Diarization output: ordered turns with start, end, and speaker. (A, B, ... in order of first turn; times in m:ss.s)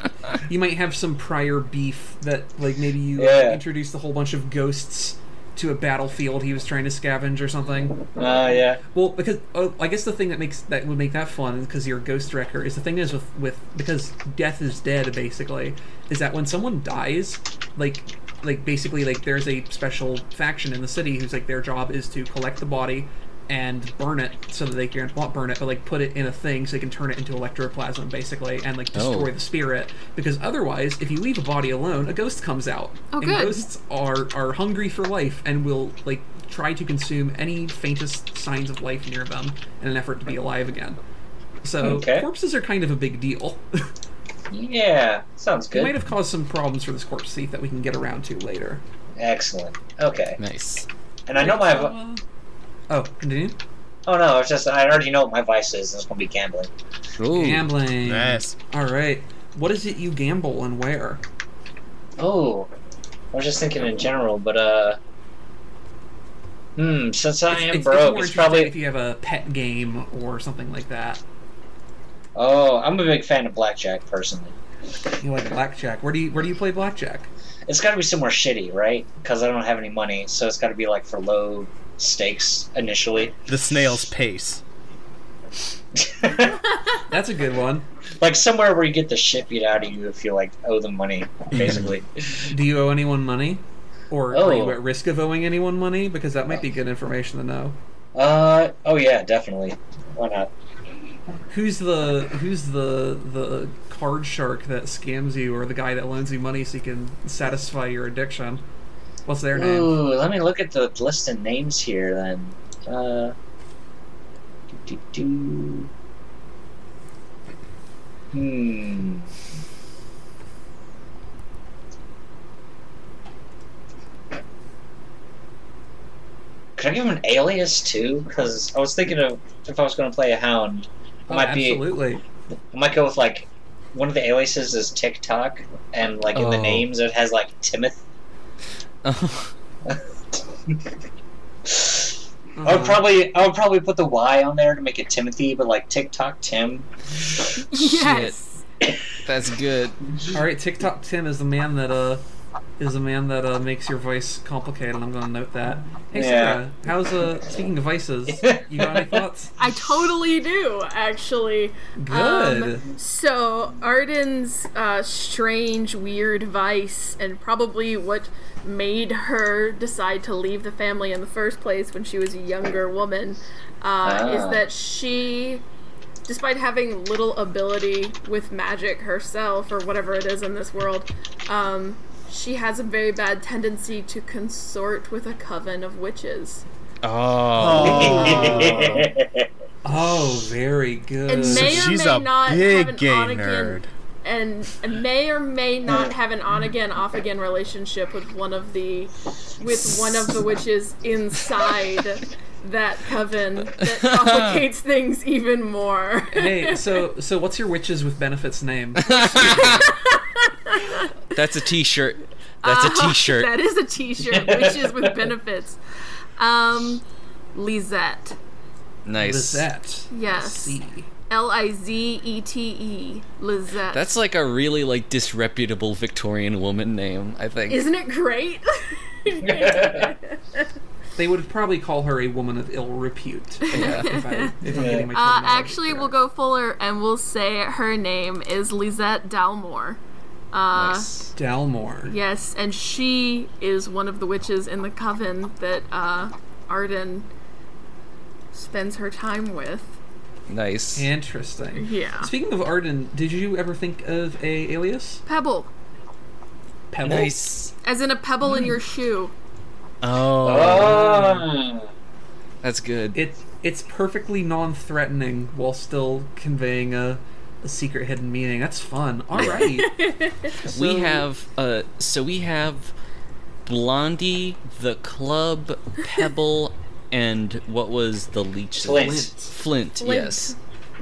0:00.4-0:41.0 A
0:03.2-0:03.6 B
0:08.1-0:08.8 B
0:28.9-0:29.3 C
0:33.1-0:33.7 D
0:41.6-0:43.9 A
0:41.8-0:42.3 B
0:44.5-0:46.0 B
0:45.7-0:48.8 A
0:49.2-0:50.4 B
0:50.4-0:50.9 C
0:51.3-0:52.0 B
0:51.4-0:52.2 A
0:52.9-0:53.6 A
0:54.1-0:56.7 B
0:57.2-0:57.7 C
0:57.3-1:01.2 A
0:58.0-0:58.6 E
1:02.2-1:02.7 B
1:03.3-1:05.0 B
1:06.8-1:08.7 B
1:07.5-1:11.2 A
1:12.4-1:14.6 B
1:15.2-1:17.3 A
1:17.7-1:23.4 B
1:23.5-1:24.6 E
1:26.0-1:26.7 B
1:27.1-1:27.8 A
1:28.2-1:32.5 B
1:32.5-1:37.8 A
1:34.3-1:34.8 B
1:38.2-1:40.5 B
1:41.5-1:48.6 A
1:49.3-1:50.0 A
1:49.5-1:53.3 B
1:54.7-1:55.9 B
1:58.3-1:59.3 B
2:06.8-2:11.9 B
2:11.3-2:12.2 A
2:12.7-2:18.0 B
2:16.3-2:16.9 C
2:19.0-2:19.5 C
2:21.7-2:22.1 B
2:22.6-2:23.1 A
2:22.6-2:26.9 B
2:27.6-2:28.6 D
2:27.7-2:28.3 C
2:29.2-2:30.0 C
2:30.3-2:32.2 A
2:32.8-2:39.5 A
2:36.1-2:36.6 B
2:38.3-2:39.2 B
2:39.6-2:55.6 D
2:42.0-2:42.9 A
2:54.0-2:54.6 B
2:56.3-3:06.6 D
3:07.0-3:08.7 C
3:07.6-3:09.1 E
3:07.8-3:09.5 B
3:08.0-3:08.9 A
3:09.8-3:11.9 A
3:11.3-3:26.8 D
3:11.4-3:13.9 E
3:23.8-3:24.6 C
3:26.3-3:29.9 A
3:29.0-3:29.9 C
3:29.0-3:31.1 D
3:31.3-3:33.5 C
3:32.6-3:35.8 D
3:34.3-3:35.1 B
3:36.4-3:38.4 D
3:39.1-3:39.7 C
3:39.2-3:41.1 A
3:40.1-3:40.8 D
3:41.3-3:44.1 D
3:43.9-3:47.9 C
3:47.7-3:50.7 D
3:49.4-3:50.1 B
3:51.2-3:56.1 A
3:53.7-3:54.1 C
3:53.7-3:54.6 D
3:54.7-3:55.1 B
3:55.1-4:00.0 D
4:00.5-4:01.1 D
4:00.7-4:01.3 C
4:01.4-4:02.2 A
4:02.1-4:07.3 D
4:08.5-4:10.0 D
4:10.5-4:11.1 C
4:11.0-4:15.2 A
4:11.8-4:12.3 D
4:15.3-4:15.7 D
4:16.9-4:17.4 A
4:17.0-4:17.7 C
4:17.8-4:19.3 D
4:20.0-4:21.4 C
4:20.4-4:21.9 B
4:20.6-4:21.4 A
4:22.6-4:23.2 C
4:23.1-4:30.0 A
4:29.3-4:29.8 C
4:29.8-4:30.6 D
4:30.6-4:31.2 A
4:30.6-4:32.9 C
4:33.7-4:40.5 C
4:38.8-4:39.3 B
4:38.9-4:39.5 A
4:40.0-4:40.6 D